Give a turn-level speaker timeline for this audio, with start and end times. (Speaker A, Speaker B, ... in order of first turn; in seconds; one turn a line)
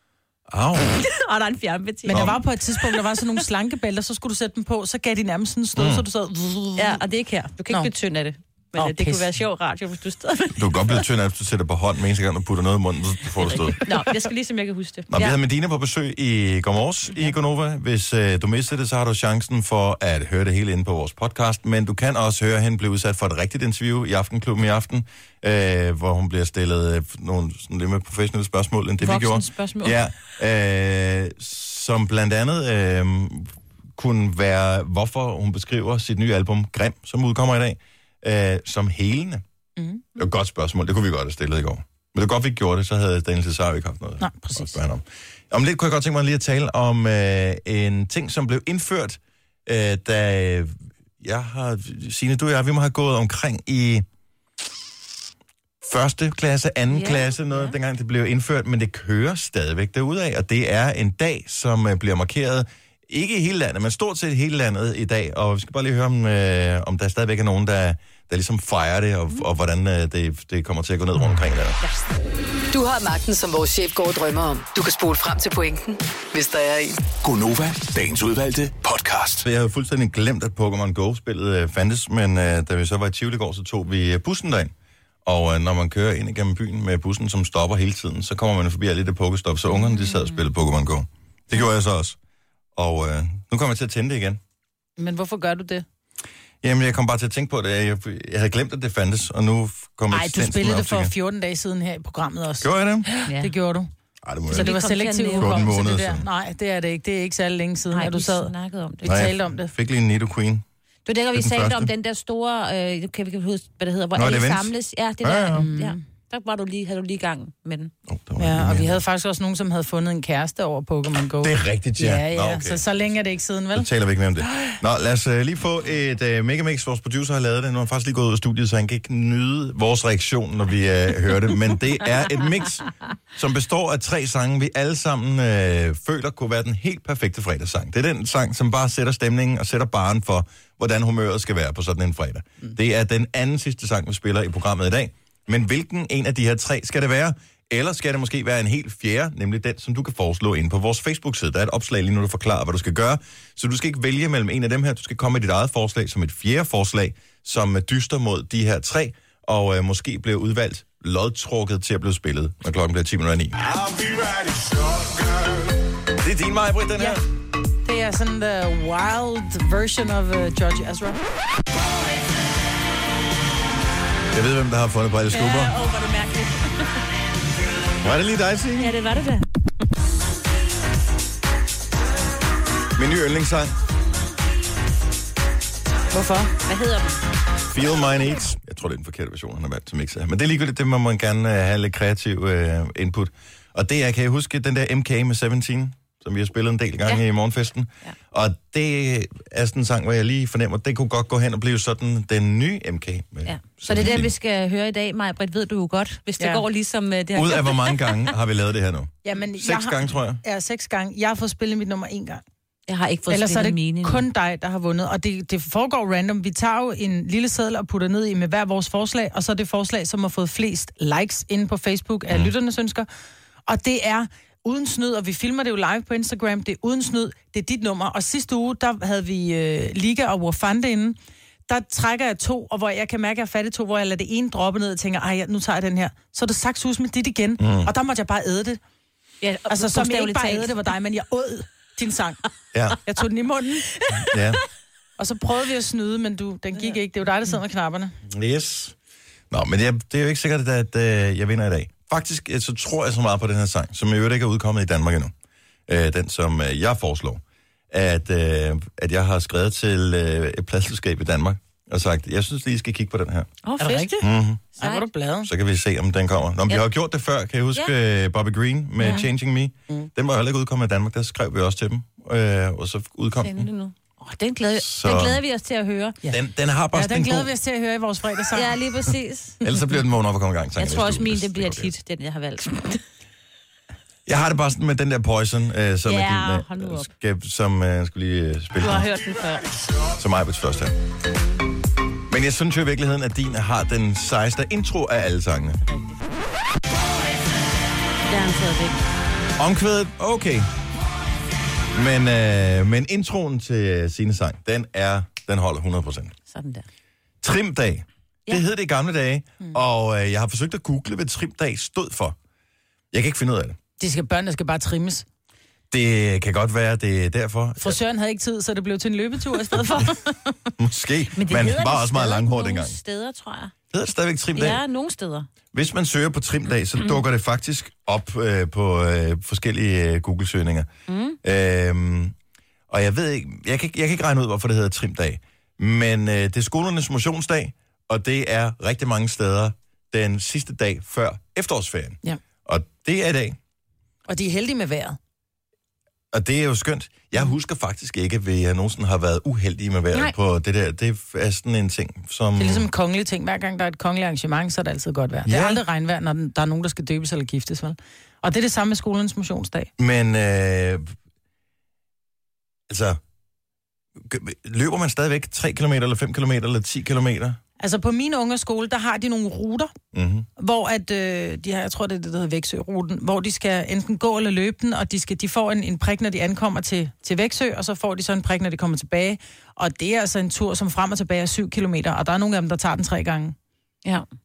Speaker A: 0.5-1.0
Speaker B: 0.9-3.0
Speaker C: 2.0-7.0
Speaker A: 2.1-2.4
Speaker A: 5.8-6.0
Speaker B: 6.8-11.0
Speaker C: 8.8-9.2
Speaker A: 10.5-13.8
Speaker B: 13.4-15.4
Speaker A: 15.1-39.4
Speaker B: 29.0-30.0
Speaker C: 39.8-40.0
Speaker A: 40.1-54.0
Speaker C: 44.2-44.8
Speaker A: 55.8-71.8
Speaker B: 56.9-57.7
Speaker D: 72.7-77.0
Speaker E: 77.2-79.4
Speaker A: 79.4-84.7
Speaker A: 85.2-92.2
Speaker A: 92.7-94.4
Speaker C: 95.0-95.8
Speaker A: 96.6-101.1
Speaker C: 100.1-102.7
Speaker A: 102.6-103.1
Speaker B: 103.2-103.5
Speaker C: 103.3-103.9
Speaker A: 104.2-104.7
Speaker C: 104.5-108.5
Speaker B: 104.5-105.7
Speaker A: 105.3-106.2
Speaker B: 107.9-109.3
Speaker C: 109.0-109.7
Speaker A: 109.0-110.6
Speaker B: 111.0-117.9
Speaker A: 111.3-111.9
Speaker A: 114.1-114.7
Speaker A: 115.2-115.7
Speaker C: 115.5-116.0
Speaker A: 118.1-119.0
Speaker C: 118.4-123.9
Speaker A: 121.4-122.8
Speaker A: 123.7-165.5
Speaker A: 166.2-167.2
Speaker C: 167.8-171.2
Speaker A: 174.3-175.7
Speaker B: 175.3-177.0
Speaker A: 178.0-178.9
Speaker B: 178.8-179.5
Speaker A: 182.9-183.7
Speaker C: 186.1-186.5
Speaker B: 186.5-187.2
Speaker A: 187.7-204.3
Speaker B: 203.4-208.3
Speaker A: 207.3-210.4
Speaker C: 209.2-212.4
Speaker B: 212.9-214.2
Speaker C: 213.3-223.1
Speaker C: 223.7-231.2
Speaker C: 231.7-238.8
Speaker A: 237.6-237.9
Speaker B: 239.4-240.8
Speaker C: 239.7-242.4
Speaker A: 242.7-243.0
Speaker C: 243.0-243.9
Speaker A: 244.2-244.6
Speaker C: 245.2-248.1
Speaker A: 248.3-248.9
Speaker A: 249.5-255.3
Speaker A: 255.9-263.5
Speaker B: 263.6-264.2
Speaker C: 263.8-264.2
Speaker A: 264.2-264.6
Speaker C: 264.8-265.5
Speaker B: 264.8-265.1
Speaker A: 265.4-273.7
Speaker B: 269.0-269.3
Speaker B: 273.4-276.2
Speaker A: 274.8-275.4
Speaker A: 276.3-277.5
Speaker C: 276.9-278.7
Speaker B: 278.5-279.6
Speaker A: 279.6-281.9
Speaker B: 280.8-283.0
Speaker A: 284.2-289.1
Speaker B: 286.1-287.1
Speaker B: 288.8-289.9
Speaker A: 290.1-290.9
Speaker A: 292.3-295.8
Speaker B: 298.3-299.0
Speaker A: 299.6-300.7
Speaker A: 301.9-306.3
Speaker B: 306.5-306.9
Speaker A: 307.4-312.4
Speaker A: 313.1-313.8
Speaker C: 314.0-315.2
Speaker A: 315.9-318.0
Speaker C: 317.8-320.1
Speaker A: 320.8-322.9
Speaker B: 321.4-323.7
Speaker A: 323.9-324.8
Speaker B: 324.6-325.5
Speaker A: 325.7-330.9
Speaker B: 331.1-331.4
Speaker A: 331.4-332.3
Speaker A: 332.9-343.6
Speaker C: 344.3-345.2
Speaker A: 346.3-352.9
Speaker C: 352.6-359.9
Speaker A: 355.4-355.8
Speaker A: 360.0-361.0
Speaker A: 362.9-363.2
Speaker A: 364.2-367.6
Speaker C: 367.8-369.9
Speaker A: 370.1-370.5
Speaker C: 370.6-383.5